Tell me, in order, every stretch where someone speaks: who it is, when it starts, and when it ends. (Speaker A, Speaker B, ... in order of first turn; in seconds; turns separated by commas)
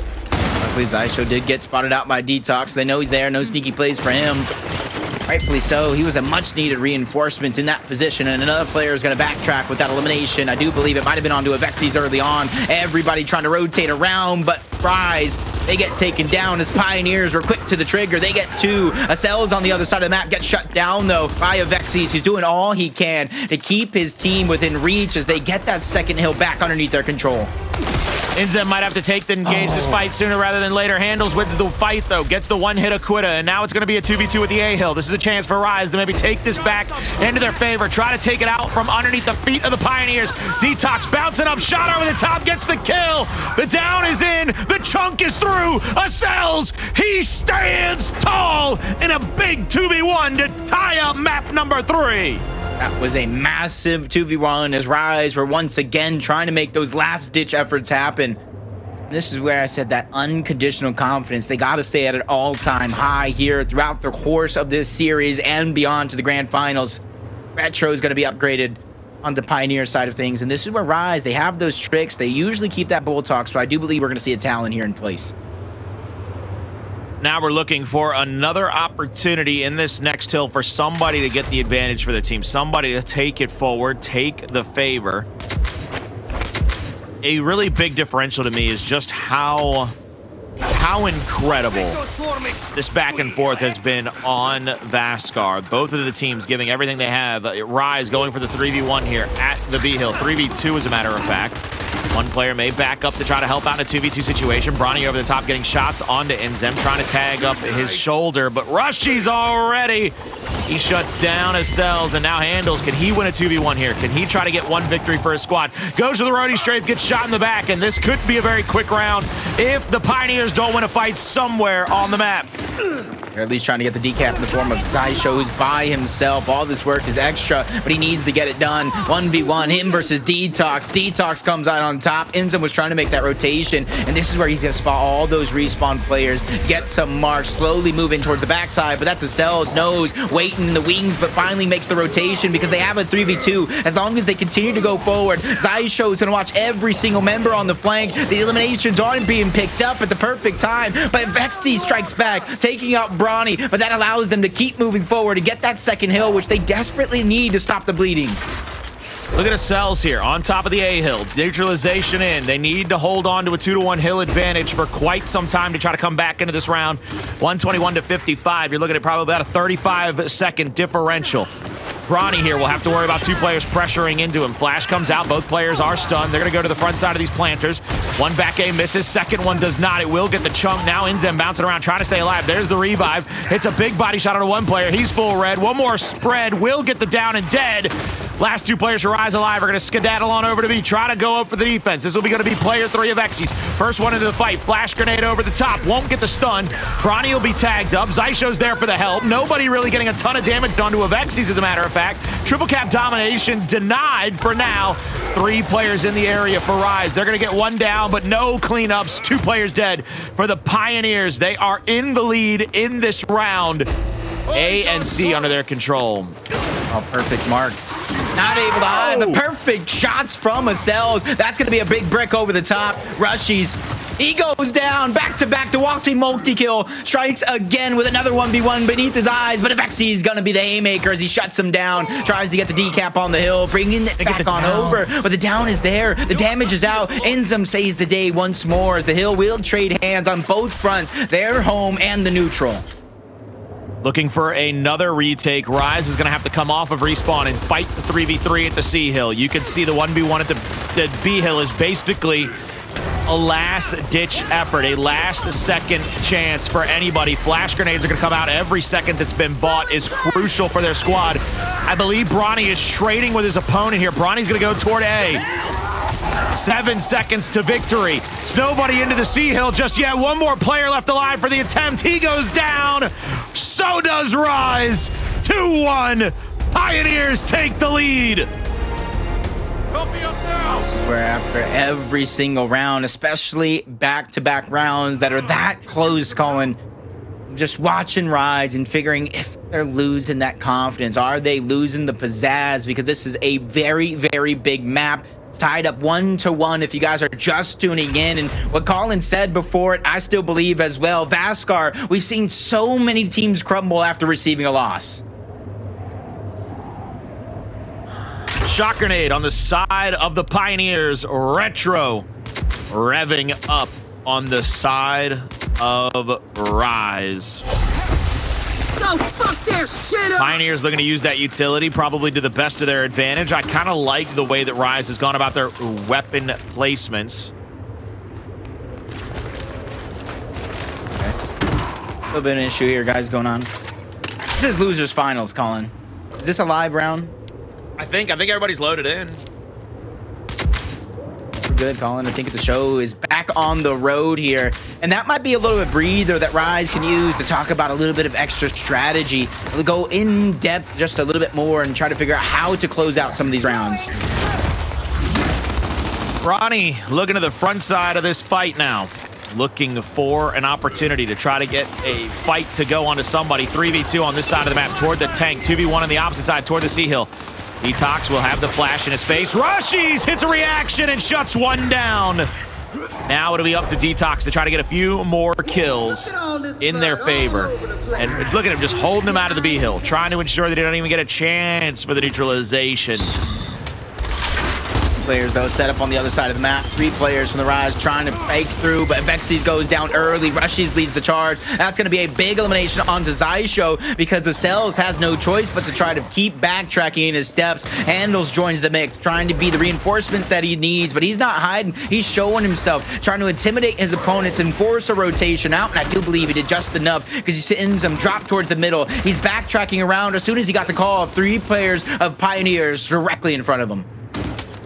Speaker A: 0.6-4.5, Speaker A: 5.2-27.5, Speaker B: 28.4-52.4, Speaker A: 52.8-58.4, Speaker A: 59.1-67.0, Speaker A: 67.5-75.3, Speaker B: 77.2-85.3, Speaker B: 87.2-89.9, Speaker B: 90.7-92.0, Speaker B: 92.7-110.1, Speaker B: 110.7-122.5, Speaker A: 123.3-158.4, Speaker B: 159.3-171.5, Speaker B: 172.1-213.9, Speaker B: 214.5-216.3, Speaker A: 216.9-217.8, Speaker A: 218.3-242.8, Speaker B: 218.9-219.4, Speaker B: 234.2-235.1, Speaker B: 244.0-252.5, Speaker B: 253.3-265.4, Speaker B: 266.5-278.5, Speaker B: 280.1-280.6, Speaker A: 280.8-286.8, Speaker A: 287.5-305.2, Speaker B: 308.6-312.3, Speaker B: 312.9-317.6, Speaker B: 319.5-327.5, Speaker A: 332.3-333.7, Speaker A: 334.5-337.3, Speaker B: 338.0-339.4, Speaker A: 341.6-354.1, Speaker B: 356.4-367.3, Speaker B: 367.8-372.5, Speaker B: 373.2-383.3, Speaker A: 385.1-414.1